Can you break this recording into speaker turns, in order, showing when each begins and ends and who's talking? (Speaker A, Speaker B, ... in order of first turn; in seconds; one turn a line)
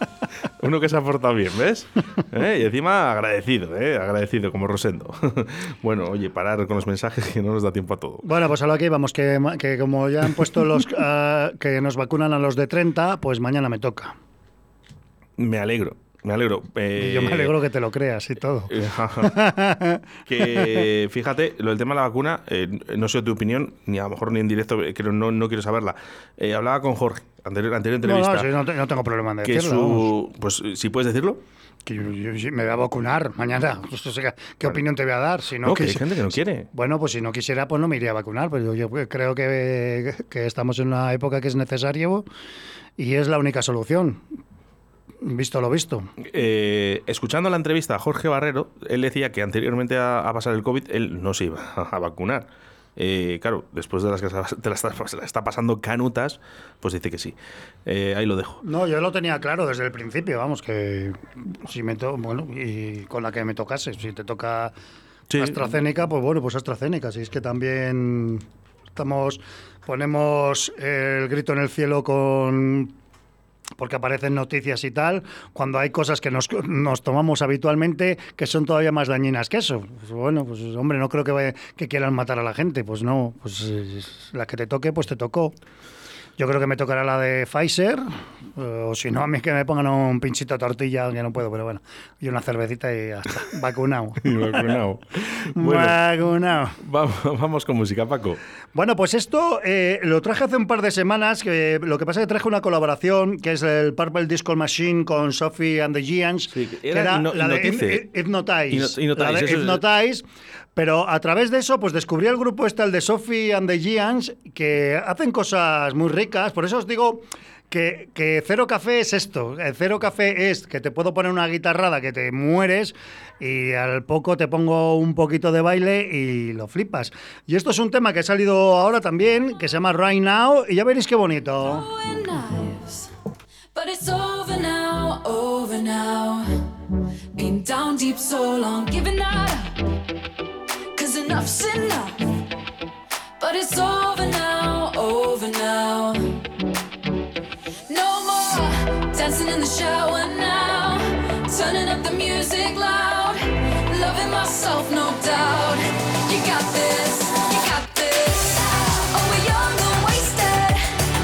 Speaker A: 0.6-8.2
Speaker B: 8.2-14.1
Speaker A: 15.4-17.5
Speaker B: 16.9-20.8
Speaker A: 18.7-19.3
Speaker A: 20.3-28.5
Speaker B: 28.0-30.1
Speaker A: 29.4-31.4
Speaker B: 31.9-36.1
Speaker A: 35.6-36.7
Speaker B: 36.7-42.2
Speaker B: 43.0-44.2
Speaker B: 45.2-46.1
Speaker A: 46.2-52.5
Speaker A: 53.0-58.6
Speaker B: 58.6-64.7
Speaker A: 65.3-65.7
Speaker B: 65.4-68.4
Speaker B: 69.0-72.9
Speaker B: 73.8-85.5
Speaker B: 86.4-88.0
Speaker B: 88.5-94.7
Speaker A: 94.2-96.0
Speaker B: 95.6-96.8
Speaker A: 96.8-98.4
Speaker B: 98.7-110.2
Speaker A: 106.5-108.0
Speaker A: 108.7-109.8
Speaker B: 110.8-131.9
Speaker C: 131.6-133.1
Speaker C: 133.7-136.6
Speaker C: 137.3-139.7
Speaker C: 140.9-142.3
Speaker C: 143.4-146.4
Speaker C: 147.9-160.9